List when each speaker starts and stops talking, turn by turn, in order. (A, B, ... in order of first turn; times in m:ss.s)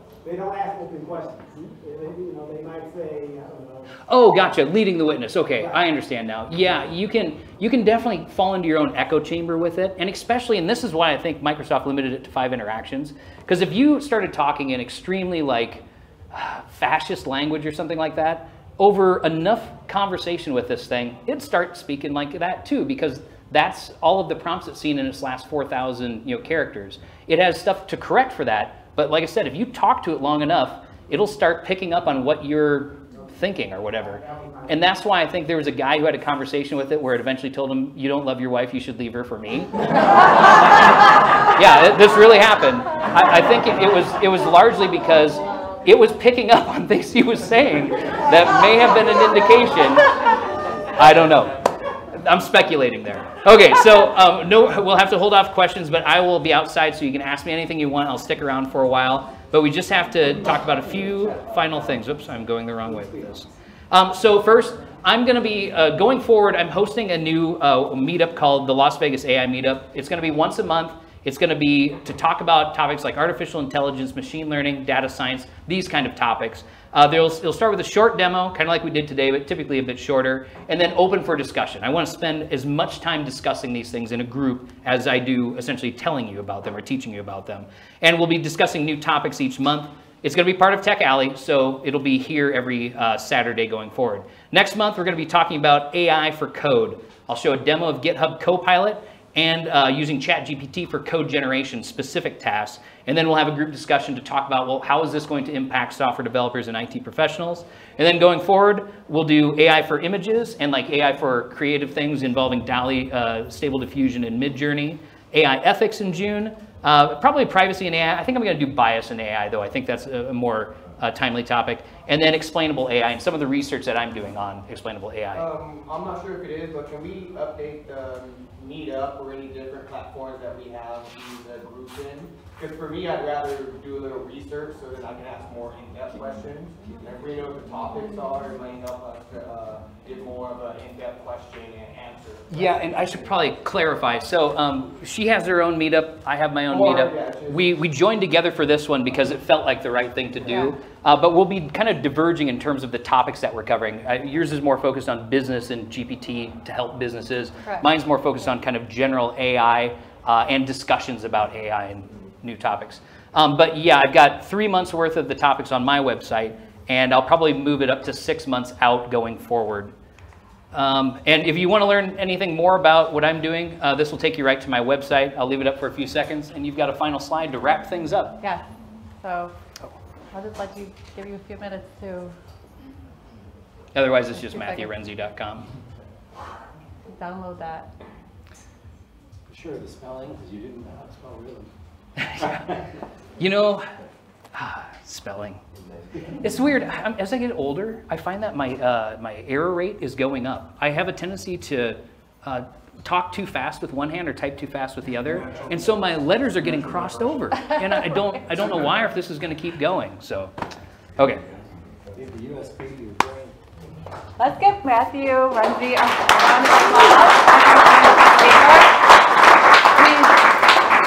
0:00.2-0:03.9 A
0:04.1-0:39.8 B
0:34.0-0:34.7 A
0:41.5-0:50.2 B
0:50.9-0:51.6 B
0:52.1-2:05.5 B
2:05.3-2:23.3 C
2:22.5-2:49.9 B
2:26.7-2:27.7 C
2:30.4-2:30.7 D
2:50.7-2:58.4 B
2:59.2-2:59.5 D
3:00.3-3:02.4 D
3:04.0-3:05.7 B
3:04.5-3:04.9 D
3:07.1-3:07.9 D
3:09.5-3:11.7 E
3:12.2-3:12.7 B
3:13.4-3:13.9 B
3:14.5-3:15.6 B
3:16.4-3:30.5 B
3:25.3-3:25.9 E
3:31.2-3:31.4 B
3:32.1-3:33.6 E
3:34.4-3:39.0 D
3:40.0-3:40.6 D